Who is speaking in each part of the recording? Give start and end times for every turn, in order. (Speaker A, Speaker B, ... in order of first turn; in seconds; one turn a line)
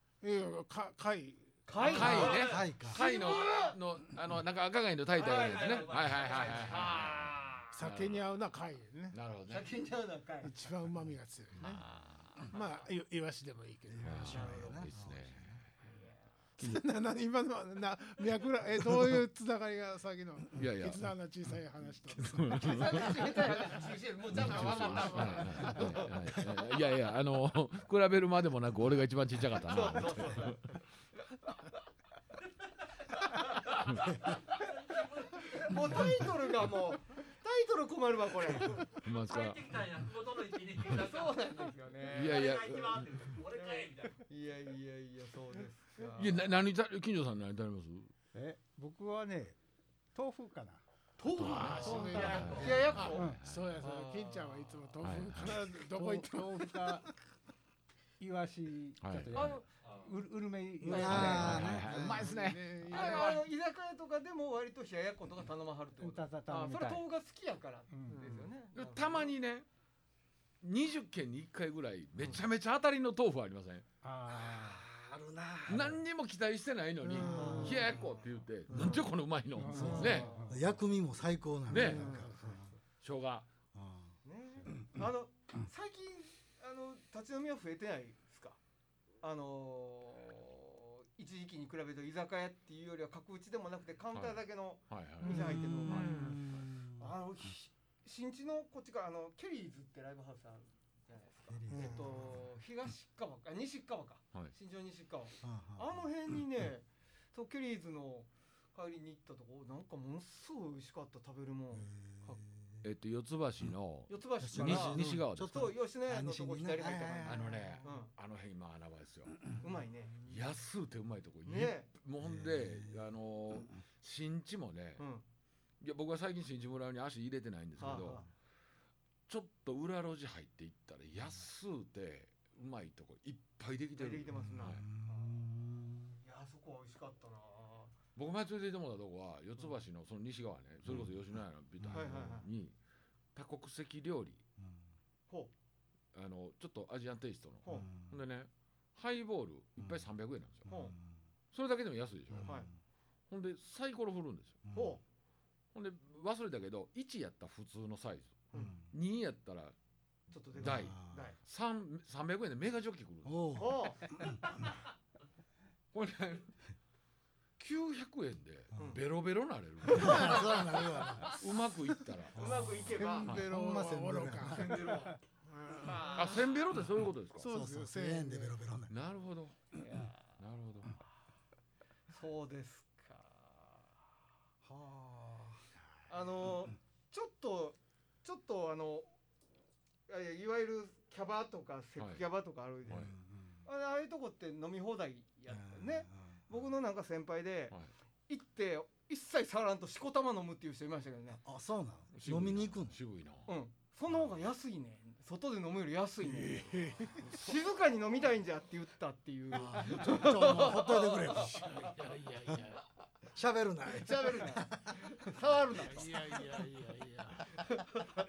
Speaker A: 0.2-2.0
Speaker B: 1.7-3.8
Speaker C: 1.8-8.2
Speaker D: 1.8-2.6
Speaker E: 2.4-3.0
Speaker B: 5.2-7.8
Speaker D: 5.2-7.2
Speaker A: 7.7-9.2
Speaker C: 9.1-9.7
Speaker B: 9.5-10.5
Speaker A: 10.4-11.8
Speaker C: 11.6-11.8
Speaker B: 11.6-12.4
Speaker A: 12.5-14.3
Speaker E: 13.9-15.6
Speaker C: 14.0-15.7
Speaker B: 14.3-14.9
Speaker B: 15.8-16.3
Speaker A: 16.6-23.1
Speaker C: 20.6-21.1
Speaker C: 22.1-23.5
Speaker B: 22.6-26.5
Speaker C: 24.3-30.6
Speaker A: 24.3-26.1
Speaker B: 29.6-31.5
Speaker D: 33.0-36.3
Speaker B: 35.4-38.9
Speaker C: 38.7-39.8
Speaker D: 39.0-41.4
Speaker B: 40.9-42.7
Speaker D: 42.0-44.2
Speaker C: 42.0-43.4
Speaker B: 43.6-46.4
Speaker C: 46.1-48.1
Speaker F: 48.3-49.6
Speaker F: 50.1-50.8
Speaker B: 51.2-54.9
Speaker C: 51.3-53.8
Speaker A: 51.4-57.1
Speaker D: 51.8-52.8
Speaker E: 52.6-52.9
Speaker F: 53.1-53.4
Speaker C: 55.0-55.6
Speaker F: 56.0-57.0
Speaker F: 58.2-61.8
Speaker C: 59.0-59.6
Speaker B: 59.4-59.6
Speaker D: 59.8-60.1
Speaker C: 60.8-63.4
Speaker E: 60.9-62.4
Speaker A: 61.7-63.4
Speaker B: 62.9-69.3
Speaker F: 66.0-67.0
Speaker F: 67.9-68.5
Speaker A: 68.1-68.3
Speaker C: 68.8-69.7
Speaker C: 70.6-73.8
Speaker F: 74.0-74.8
Speaker E: 74.3-76.0
Speaker C: 75.7-80.3
Speaker E: 77.0-79.0
Speaker B: 77.2-78.0
Speaker B: 78.7-79.1
Speaker F: 79.5-80.6
Speaker E: 79.7-82.8
Speaker B: 79.7-80.5
Speaker C: 81.7-82.3
Speaker B: 81.8-82.3
Speaker C: 83.0-83.5
Speaker E: 83.7-84.9
Speaker B: 84.2-88.6
Speaker B: 89.2-96.4
Speaker C: 94.1-96.6
Speaker E: 95.3-97.2
Speaker B: 97.0-112.4
Speaker E: 101.5-102.5
Speaker E: 105.4-106.1
Speaker E: 111.7-112.8
Speaker C: 112.8-115.8
Speaker B: 114.1-118.1
Speaker E: 114.4-117.8
Speaker C: 117.2-119.4
Speaker B: 119.6-120.2
Speaker C: 120.2-125.1
Speaker B: 121.5-121.9
Speaker E: 122.2-123.0
Speaker B: 125.0-125.2
Speaker C: 125.8-128.3
Speaker B: 127.8-128.3
Speaker E: 127.8-128.2
Speaker C: 129.3-134.9
Speaker B: 134.0-135.4
Speaker E: 134.3-136.2
Speaker B: 136.2-137.9
Speaker C: 138.2-142.7
Speaker E: 141.8-142.2
Speaker B: 141.9-142.5
Speaker C: 143.3-144.4
Speaker C: 146.1-150.9
Speaker B: 147.6-147.9
Speaker E: 147.7-148.1
Speaker E: 150.7-151.2
Speaker B: 150.7-150.9
Speaker C: 151.5-152.7
Speaker E: 152.3-152.7
Speaker B: 152.4-152.7
Speaker C: 153.3-154.6
Speaker E: 154.7-155.0
Speaker B: 154.7-155.0
Speaker C: 155.7-159.8
Speaker E: 158.6-158.9
Speaker B: 160.3-161.4
Speaker C: 160.6-163.8
Speaker E: 160.6-161.3
Speaker E: 163.2-164.5
Speaker B: 163.6-164.0
Speaker C: 165.9-166.5
Speaker C: 167.6-170.8
Speaker B: 168.8-169.0
Speaker B: 169.9-170.4
Speaker E: 169.9-171.3
Speaker C: 171.3-172.7
Speaker E: 172.3-174.8
Speaker B: 172.3-173.3
Speaker A: 173.0-174.9
Speaker C: 173.2-173.5
Speaker B: 174.5-175.2
Speaker A: 175.5-176.5
Speaker B: 175.8-176.6
Speaker C: 176.1-177.5
Speaker A: 177.4-178.6
Speaker E: 177.4-179.0
Speaker C: 178.9-179.6
Speaker B: 179.8-180.3
Speaker C: 180.4-180.9
Speaker B: 182.1-183.9
Speaker E: 184.6-185.7
Speaker B: 186.1-189.2
Speaker B: 190.1-193.1
Speaker C: 192.0-192.2
Speaker C: 192.9-193.1
Speaker E: 192.9-193.7
Speaker B: 193.7-197.8
Speaker E: 195.5-196.6
Speaker B: 198.3-201.4
Speaker E: 201.4-203.0
Speaker C: 202.1-203.5
Speaker B: 203.5-211.9
Speaker E: 206.5-207.3
Speaker C: 206.8-207.3
Speaker E: 209.5-212.6
Speaker D: 211.6-212.8
Speaker E: 213.3-217.7
Speaker B: 213.9-216.6
Speaker B: 217.6-217.9